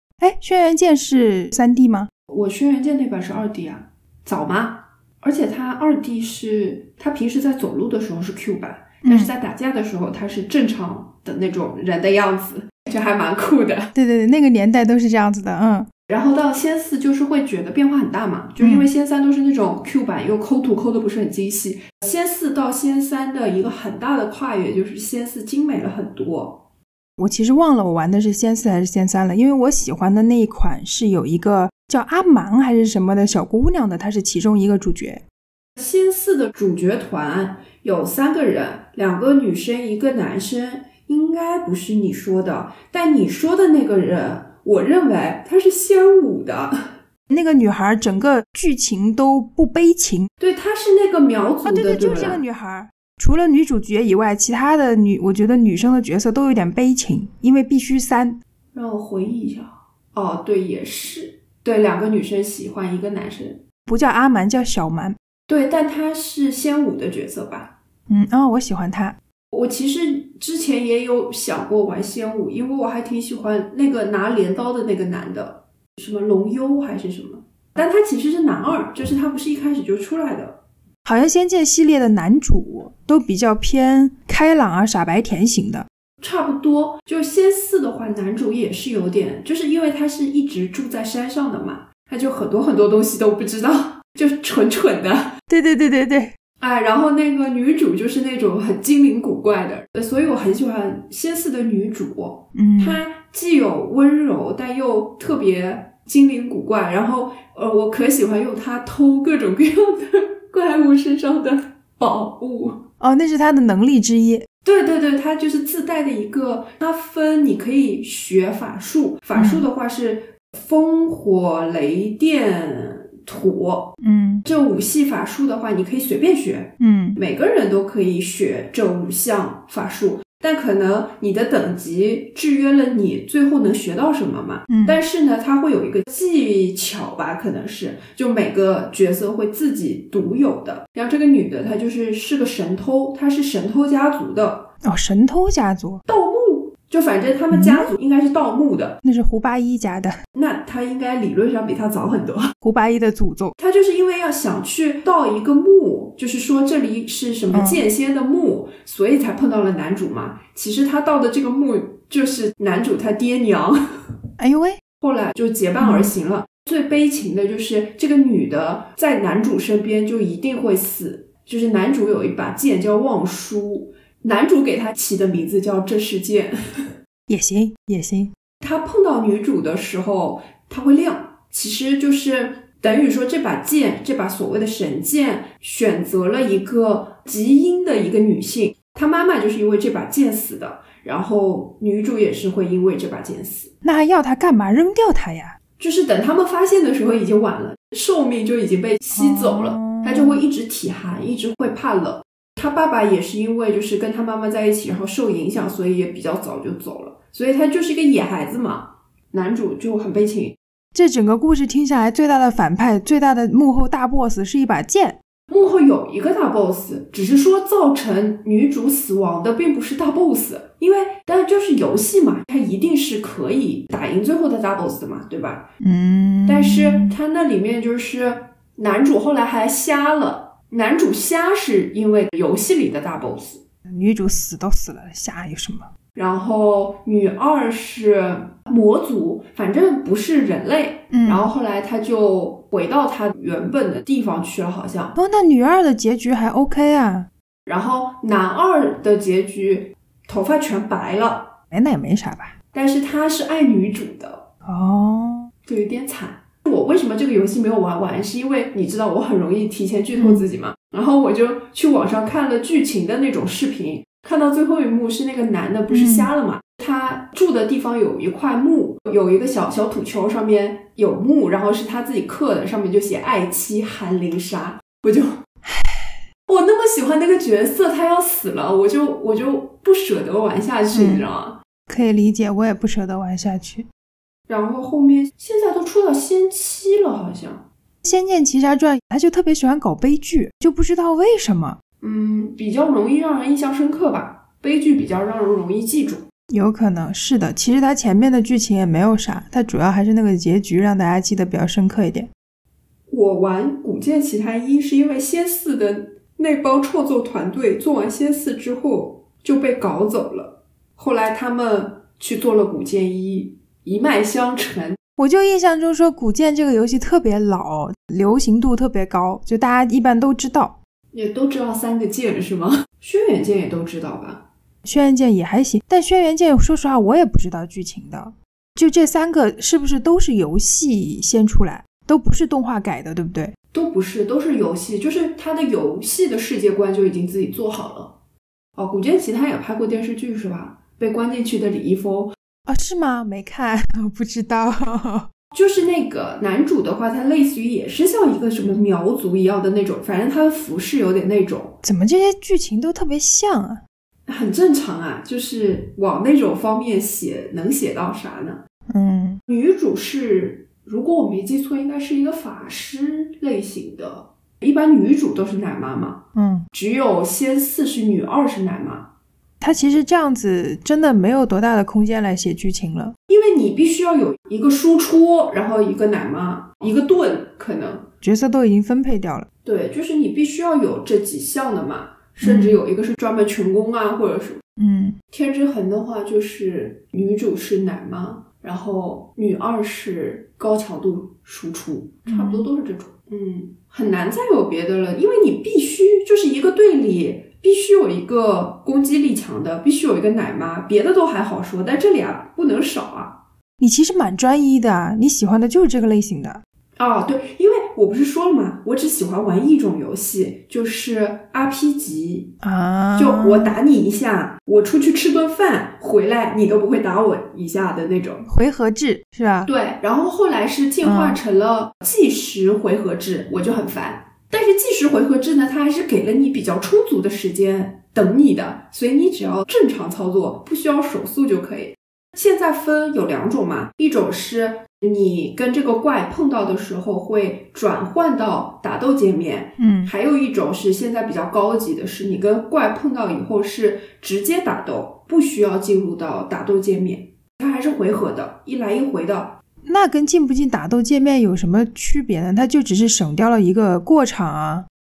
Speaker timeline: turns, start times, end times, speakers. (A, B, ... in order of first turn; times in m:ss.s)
0:00.2-0:02.1 A
0:02.3-0:13.9 B
0:09.0-0:09.3 A
0:13.9-0:15.9 A
0:16.1-0:26.6 B
0:18.6-0:18.8 A
0:27.2-0:35.2 A
0:35.8-0:46.9 B
0:47.3-0:50.3 A
0:50.4-0:52.4 B
0:51.6-0:58.4 A
0:58.7-1:03.6 B
1:03.9-1:05.2 A
1:05.5-1:07.7 B
1:08.1-1:09.2 A
1:09.5-1:20.6 B
1:21.0-1:25.9 A
1:26.2-1:35.3 B
1:35.5-1:36.3 A
1:36.6-1:52.8 B
1:42.5-1:43.0 A
1:53.0-1:54.5 A
1:54.6-2:24.7 B
1:59.3-1:59.6 A
2:04.0-2:04.4 A
2:06.8-2:07.2 A
2:14.7-2:15.0 A
2:24.8-2:26.0 A
2:26.0-2:29.0 B
2:27.5-2:27.9 A
2:29.0-2:30.2 A
2:30.3-2:32.5 B
2:32.6-2:33.5 A
2:33.6-2:43.8 B
2:37.5-2:37.8 A
2:44.4-2:44.8 A
2:45.0-2:56.5 B
2:45.8-2:46.1 A
2:57.3-2:58.3 A
2:58.6-3:13.7 B
3:13.8-3:15.6 A
3:15.8-3:30.6 B
3:19.1-3:20.4 A
3:30.9-3:35.2 A
3:35.5-3:45.7 B
3:45.8-3:47.2 A
3:46.4-3:53.6 B
3:53.9-3:55.9 A
3:56.1-4:05.2 B
4:01.1-4:01.5 A
4:05.2-4:07.3 A
4:07.6-4:11.5 B
4:11.7-4:12.5 A
4:12.7-4:14.4 B
4:14.6-4:15.5 A
4:15.6-4:35.3 B
4:20.1-4:20.4 A
4:25.9-4:26.3 A
4:35.6-4:36.2 A
4:36.5-4:41.6 B
4:40.9-4:41.2 A
4:41.9-4:43.9 A
4:44.5-4:47.6 B
4:48.0-4:51.8 A
4:52.0-4:56.2 B
4:56.5-5:02.3 A
5:03.1-5:15.0 B
5:15.2-5:20.8 A
5:21.1-5:24.4 B
5:24.8-5:33.5 A
5:33.7-5:38.1 B
5:38.8-5:42.3 B
5:42.7-5:45.3 A
5:45.5-5:51.8 B
5:51.8-5:53.8 A
5:54.3-5:58.6 B
5:58.9-5:59.4 A
5:59.5-6:09.1 B
6:06.3-6:06.7 A
6:09.6-6:13.1 A
6:13.3-6:18.1 B
6:18.2-6:19.5 A
6:19.6-6:24.6 B
6:22.4-6:22.8 A
6:24.8-6:25.2 A
6:25.3-6:43.4 B
6:32.3-6:32.7 A
6:43.8-6:46.6 A
6:47.0-6:52.5 B
6:52.6-6:53.8 A
6:53.2-6:58.5 B
6:58.5-6:59.7 A
6:59.6-7:29.6 B
7:01.0-7:01.4 A
7:19.8-7:20.1 A
7:29.8-7:34.9 A